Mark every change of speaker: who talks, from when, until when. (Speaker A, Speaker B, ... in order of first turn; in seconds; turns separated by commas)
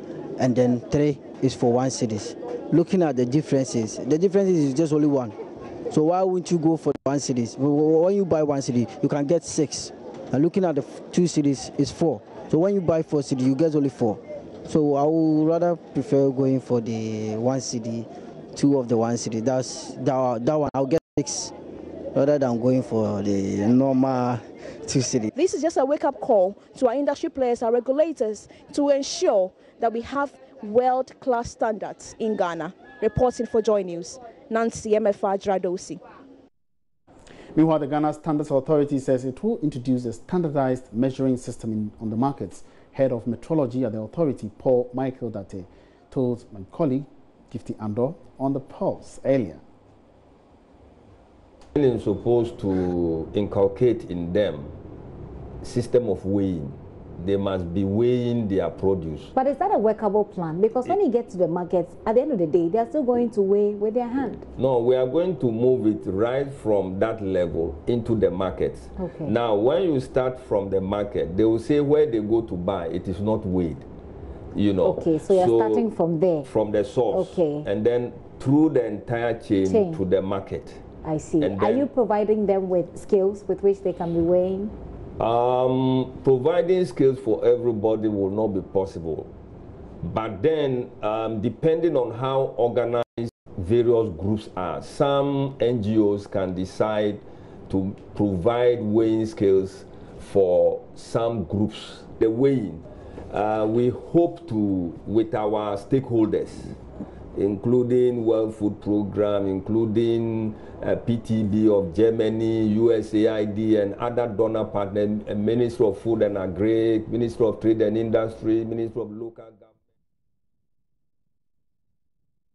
Speaker A: 0.4-5.3, Speaker A: 5.9-21.5, Speaker A: 22.1-25.3, Speaker B: 25.4-36.0, Speaker C: 37.5-49.6, Speaker D: 51.7-54.7, Speaker D: 55.6-59.3, Speaker E: 59.3-64.4, Speaker D: 64.6-73.9, Speaker E: 69.0-69.3, Speaker D: 74.5-80.8, Speaker E: 74.8-76.5, Speaker E: 77.1-77.7, Speaker E: 79.6-80.0, Speaker E: 81.0-84.7, Speaker D: 81.4-81.9, Speaker D: 85.2-89.3, Speaker D: 90.0-106.8, Speaker D: 107.3-119.7